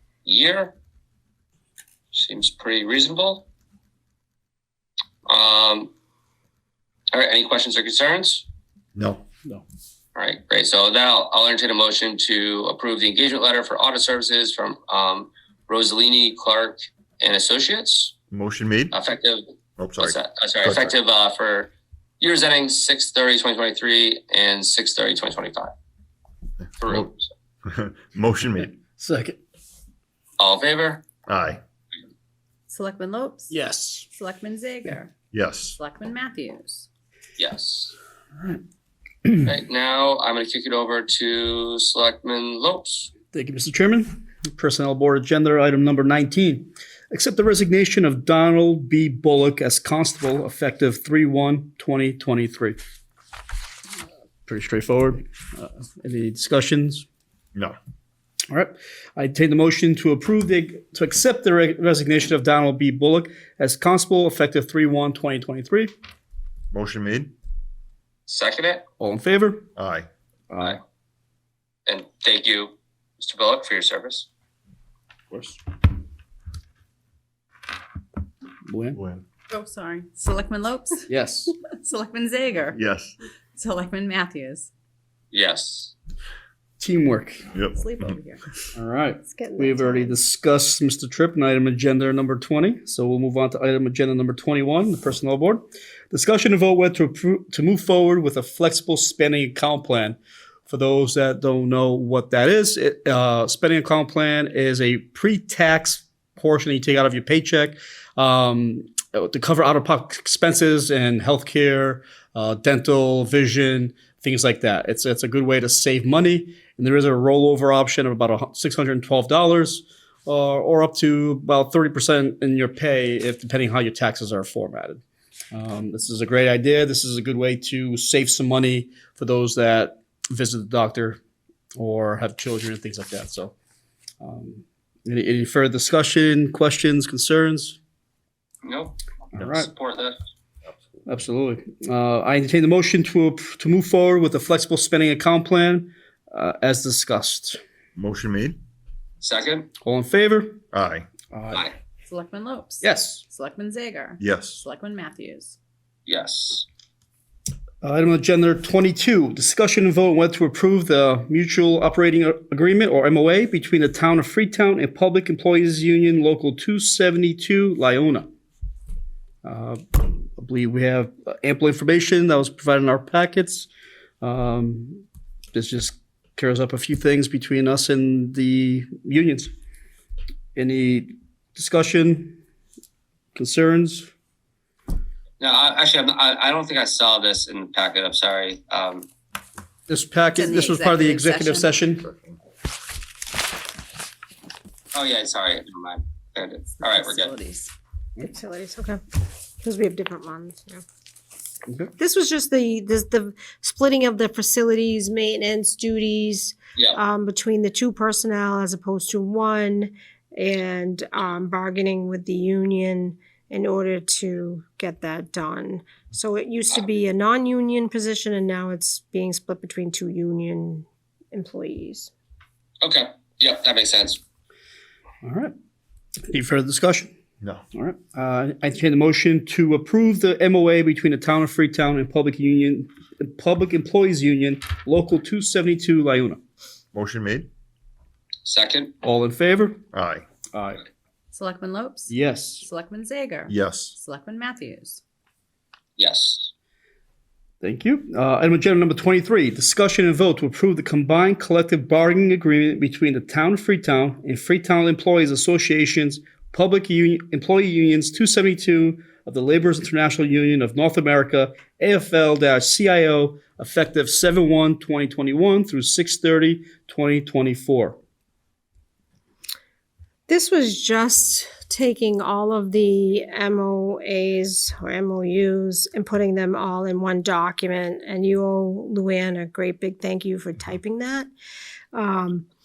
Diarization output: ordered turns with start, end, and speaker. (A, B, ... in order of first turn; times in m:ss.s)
0:00.2-0:00.7 A
0:02.1-0:03.5 A
0:05.3-0:05.9 A
0:07.1-0:08.4 A
0:09.0-0:09.2 B
0:10.2-0:18.2 A
0:18.3-0:18.9 B
0:18.9-0:25.7 A
0:19.8-0:21.0 B
0:26.8-0:27.3 A
0:27.7-0:28.8 B
0:28.6-0:29.4 C
0:30.4-0:31.0 A
0:31.3-0:31.6 B
0:32.7-0:33.6 D
0:33.5-0:34.1 C
0:34.2-0:35.1 D
0:35.3-0:35.8 B
0:35.8-0:36.9 D
0:37.4-0:38.0 A
0:39.4-0:43.1 A
0:43.3-0:52.8 C
0:54.5-0:57.0 C
0:58.5-1:05.9 C
1:06.7-1:07.3 B
1:08.3-1:08.8 A
1:09.0-1:09.7 C
1:09.8-1:10.1 B
1:10.5-1:10.8 C
1:11.9-1:14.3 A
1:15.3-1:15.6 C
1:18.7-1:19.0 C
1:19.0-1:19.2 B
1:19.5-1:21.1 D
1:21.1-1:21.5 C
1:21.6-1:22.8 D
1:22.7-1:23.2 B
1:23.6-1:24.7 D
1:25.3-1:25.9 A
1:26.8-1:27.4 C
1:27.5-1:27.9 B
1:27.7-1:28.5 D
1:28.8-2:11.2 C
1:29.3-1:30.2 E
2:11.8-2:13.5 C
2:14.2-2:17.8 C
2:18.6-2:20.2 A
2:19.4-2:19.7 C
2:21.1-2:27.6 C
2:28.0-2:28.6 B
2:29.2-2:29.7 A
2:29.8-2:30.6 C
2:30.7-2:31.1 B
2:31.3-2:31.7 C
2:32.1-2:35.6 D
2:32.8-2:33.2 C
2:34.2-2:34.6 B
2:36.1-2:36.7 A
2:37.8-2:48.3 C
2:49.4-2:53.7 C
2:54.2-2:59.5 C
3:00.6-3:02.4 C
3:03.4-3:04.1 C
3:05.4-3:09.1 A
3:09.9-3:12.0 C
3:10.3-3:11.8 D
3:12.1-3:12.4 B
3:14.9-3:17.3 A
3:16.7-3:17.7 D
3:18.2-3:19.0 E
3:19.6-3:20.8 E
3:21.7-3:21.9 C
3:22.0-3:42.1 E
3:26.8-3:27.0 A
3:42.8-3:44.2 A
3:45.2-3:45.5 C
3:46.3-3:47.1 C
3:47.8-3:56.4 C
3:56.9-3:57.5 B
3:58.4-3:58.9 A
3:59.0-3:59.8 C
3:59.9-4:00.3 B
4:00.5-4:00.8 C
4:01.3-4:05.0 D
4:02.1-4:02.6 C
4:03.5-4:04.0 B
4:06.0-4:06.5 A
4:07.6-4:28.0 C
4:30.3-4:41.3 E
4:41.9-4:42.5 E